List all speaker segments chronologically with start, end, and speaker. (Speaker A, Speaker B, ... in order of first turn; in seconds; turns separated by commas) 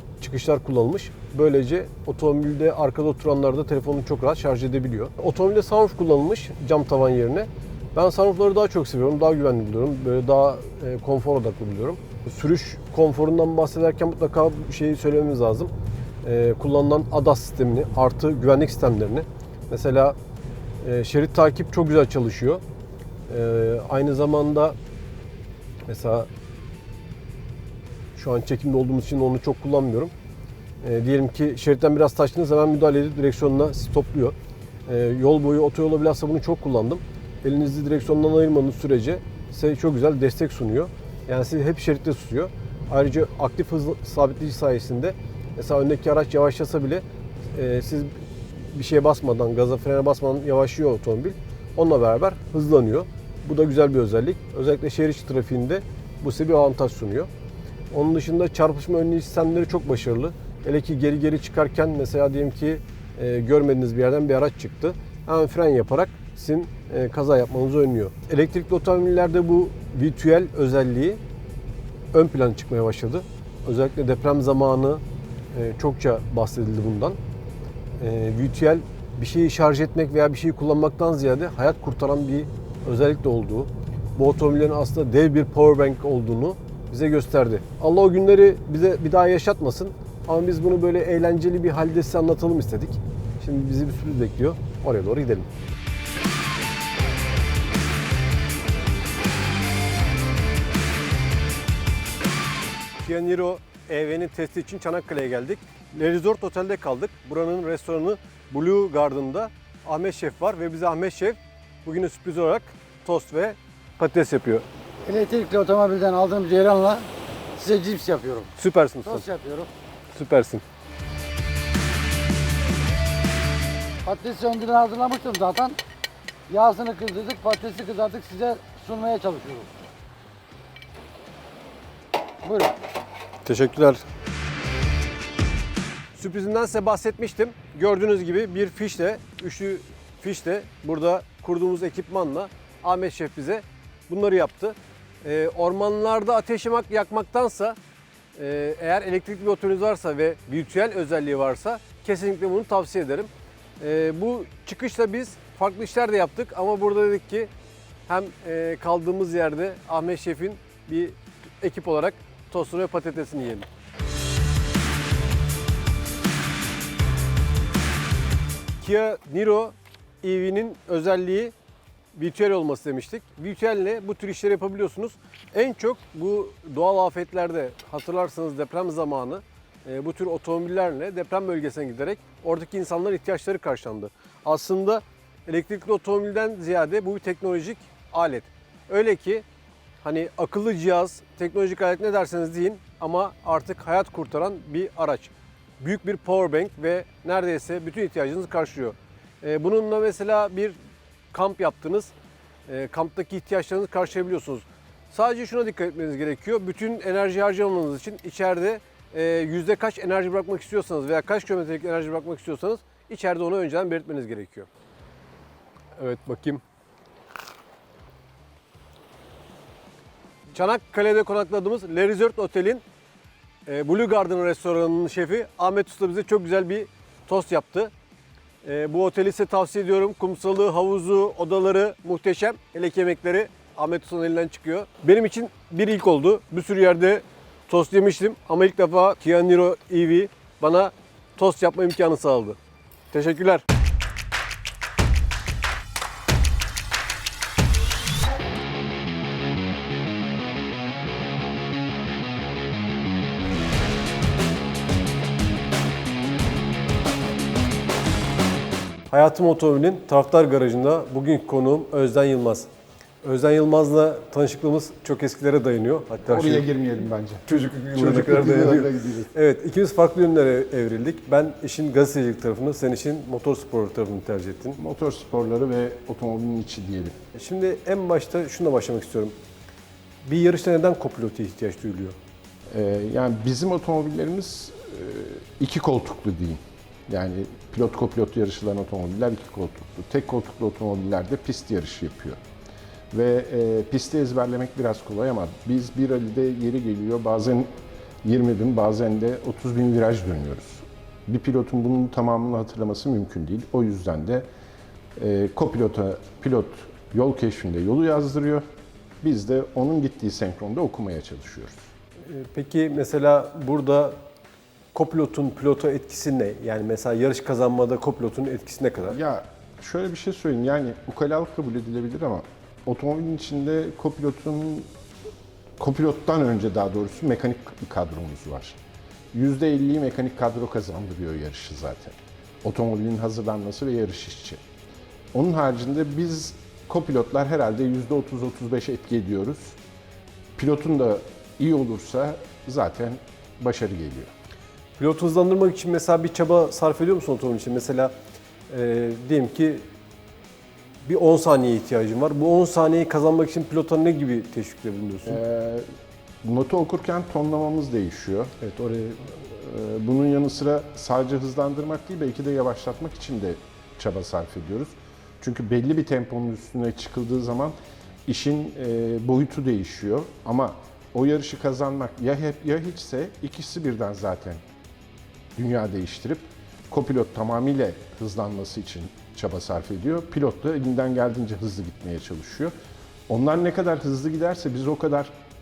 Speaker A: 0.2-15.7, Speaker A: 16.2-20.2, Speaker A: 20.8-22.6, Speaker A: 23.3-24.8, Speaker A: 25.9-26.3, Speaker A: 28.1-30.1, Speaker A: 30.8-34.4, Speaker A: 34.9-57.3, Speaker A: 57.9-71.2, Speaker A: 72.1-75.0, Speaker A: 75.5-77.2, Speaker A: 78.0-95.5, Speaker A: 103.0-114.7, Speaker B: 115.1-118.5, Speaker A: 118.6-119.3, Speaker B: 119.0-119.7, Speaker A: 120.1-120.6, Speaker B: 124.0-125.8, Speaker B: 126.5-129.7, Speaker B: 132.4-132.8, Speaker A: 133.4-134.0, Speaker A: 136.2-147.8, Speaker A: 148.4-157.5, Speaker A: 158.1-163.7, Speaker A: 168.8-171.5, Speaker A: 172.2-189.4, Speaker A: 190.0-200.8, Speaker A: 201.3-202.1, Speaker A: 202.7-214.7, Speaker A: 216.0-216.6, Speaker A: 220.5-222.8, Speaker A: 223.7-227.9, Speaker A: 228.6-242.6, Speaker A: 243.1-243.6, Speaker A: 259.1-262.7, Speaker A: 263.2-266.7, Speaker C: 266.3-269.3, Speaker A: 267.5-274.8, Speaker C: 274.8-277.1, Speaker A: 277.3-279.4, Speaker A: 280.2-282.2, Speaker C: 282.7-292.4, Speaker C: 293.1-297.7, Speaker C: 298.2-304.5, Speaker C: 305.2-308.6, Speaker C: 309.2-311.9, Speaker A: 312.2-314.2, Speaker A: 314.9-319.2, Speaker C: 319.1-324.9, Speaker C: 325.8-328.8, Speaker C: 329.3-334.6, Speaker C: 335.3-339.8, Speaker C: 340.6-344.3, Speaker A: 345.0-348.1, Speaker A: 348.7-349.9, Speaker A: 351.1-355.4, Speaker C: 355.3-355.9, Speaker C: 356.4-358.6, Speaker A: 358.6-359.4, Speaker C: 359.4-367.8, Speaker C: 368.3-374.6, Speaker C: 375.6-382.7, Speaker C: 383.3-385.4